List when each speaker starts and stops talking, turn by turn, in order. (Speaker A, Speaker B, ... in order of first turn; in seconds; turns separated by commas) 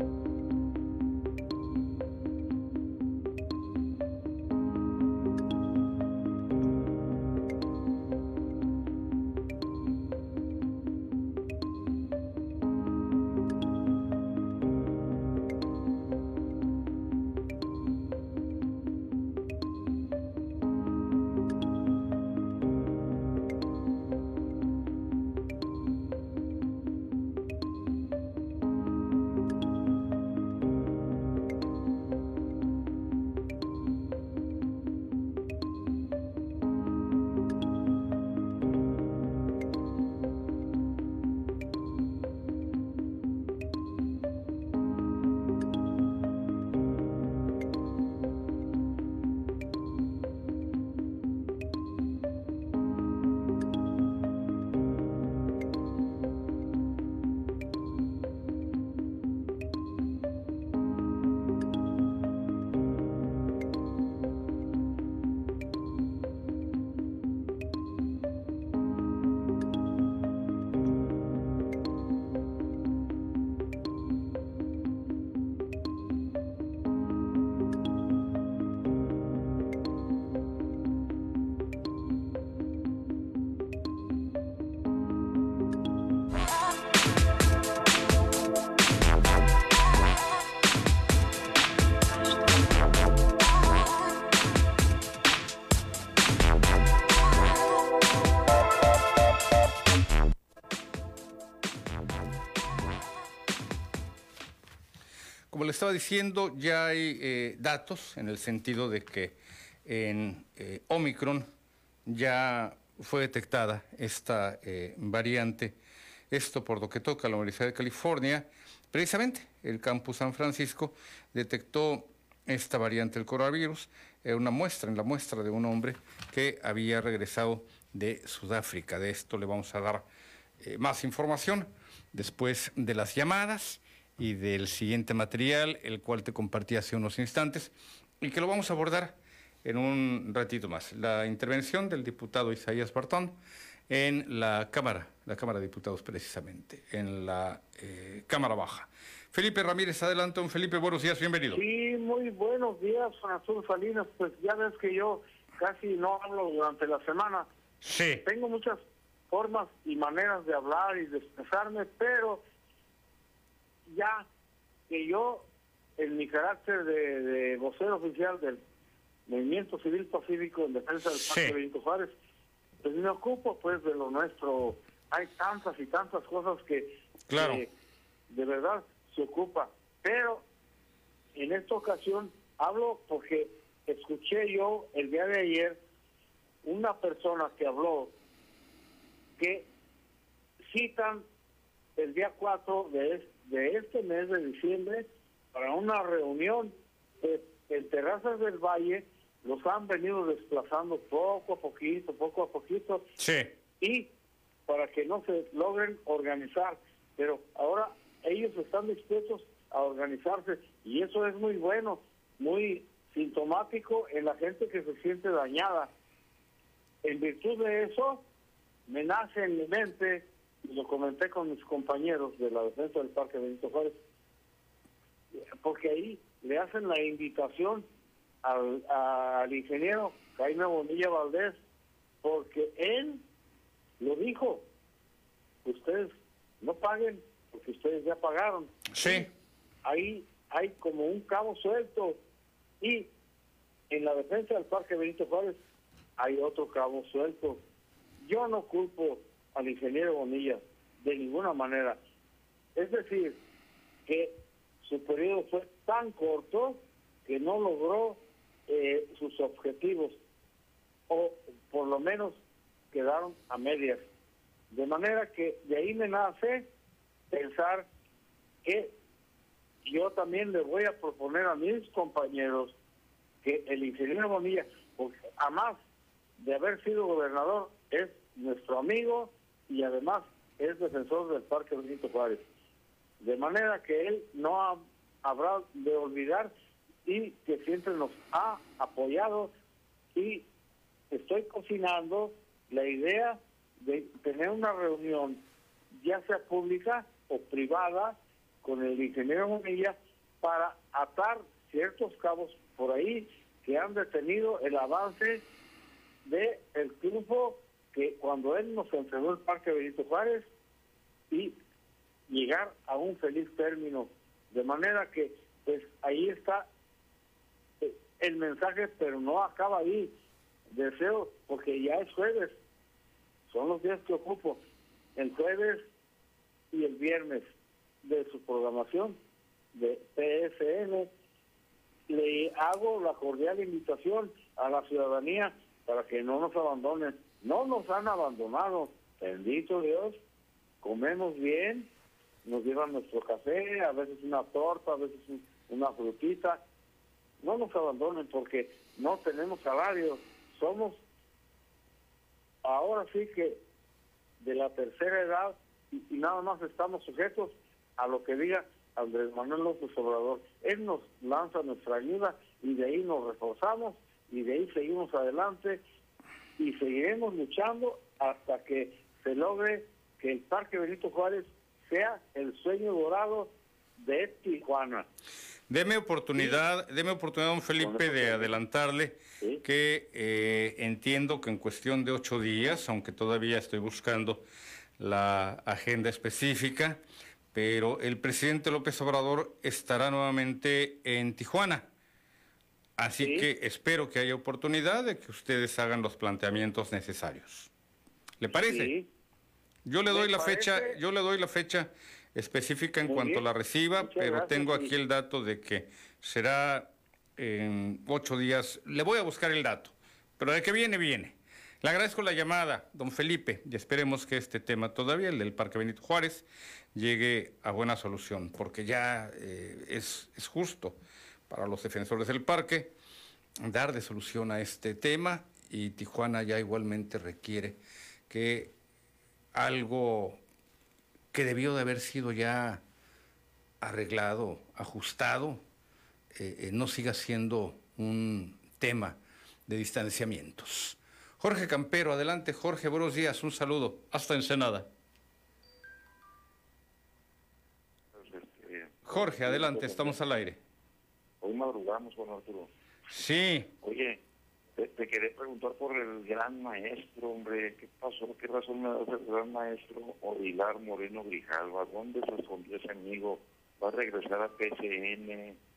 Speaker A: 105.5-111.5, Speaker A: 112.1-115.8, Speaker A: 116.3-130.1, Speaker A: 130.6-143.4, Speaker A: 143.9-151.6, Speaker B: 151.5-157.5, Speaker A: 157.8-158.2, Speaker B: 158.2-162.4, Speaker B: 163.9-164.3, Speaker B: 164.9-165.4, Speaker B: 166.0-168.6, Speaker B: 169.3-172.1, Speaker A: 171.2-171.6, Speaker B: 172.8-177.7, Speaker A: 177.3-177.7, Speaker B: 178.3-180.4, Speaker B: 181.3-185.8, Speaker B: 186.6-188.1, Speaker B: 189.4-189.7, Speaker B: 190.7-191.2, Speaker B: 192.0-203.1, Speaker A: 203.2-203.5, Speaker B: 203.8-204.1, Speaker B: 204.7-215.9, Speaker B: 217.0-218.2, Speaker B: 218.9-224.0, Speaker B: 225.6-227.9, Speaker B: 228.4-231.6, Speaker B: 232.2-233.2, Speaker B: 234.0-234.7, Speaker B: 235.7-239.3, Speaker A: 238.9-239.3, Speaker B: 239.8-242.2, Speaker B: 242.8-243.1, Speaker B: 243.9-245.6, Speaker B: 246.2-247.6, Speaker B: 248.2-252.0, Speaker B: 252.8-253.4, Speaker B: 254.1-260.2, Speaker B: 261.1-264.1, Speaker B: 264.7-266.7, Speaker B: 267.3-267.9, Speaker B: 268.6-268.9, Speaker B: 269.8-272.8, Speaker B: 273.4-275.8, Speaker B: 276.4-282.5, Speaker B: 283.2-286.5, Speaker B: 287.1-289.5, Speaker B: 290.1-290.5, Speaker B: 291.1-305.4, Speaker B: 306.2-310.5, Speaker B: 311.3-311.6, Speaker B: 312.3-316.7, Speaker B: 317.8-320.1, Speaker B: 320.7-322.6, Speaker B: 323.5-324.6, Speaker B: 325.2-325.8, Speaker B: 326.7-327.5, Speaker B: 328.0-329.2, Speaker B: 329.7-331.1, Speaker B: 332.1-340.2, Speaker B: 340.8-341.9, Speaker B: 342.4-346.6, Speaker B: 347.4-351.0, Speaker B: 352.6-353.6, Speaker B: 354.4-365.8, Speaker B: 366.6-375.1, Speaker A: 375.7-384.4, Speaker B: 377.8-378.6, Speaker A: 385.0-387.0, Speaker A: 387.5-391.9, Speaker A: 393.0-397.7, Speaker B: 393.2-393.5, Speaker A: 398.4-398.9, Speaker B: 398.5-399.1, Speaker A: 399.9-421.0, Speaker B: 400.1-401.0, Speaker B: 403.1-403.4, Speaker B: 404.0-404.9, Speaker A: 421.5-422.9, Speaker A: 423.6-427.8, Speaker A: 428.3-428.7, Speaker A: 429.5-430.4, Speaker A: 431.3-432.8, Speaker A: 433.8-435.6, Speaker A: 436.3-444.9, Speaker C: 448.1-450.2, Speaker A: 449.1-450.6, Speaker C: 451.4-452.7, Speaker A: 453.1-453.7, Speaker C: 453.8-454.2, Speaker C: 454.8-465.6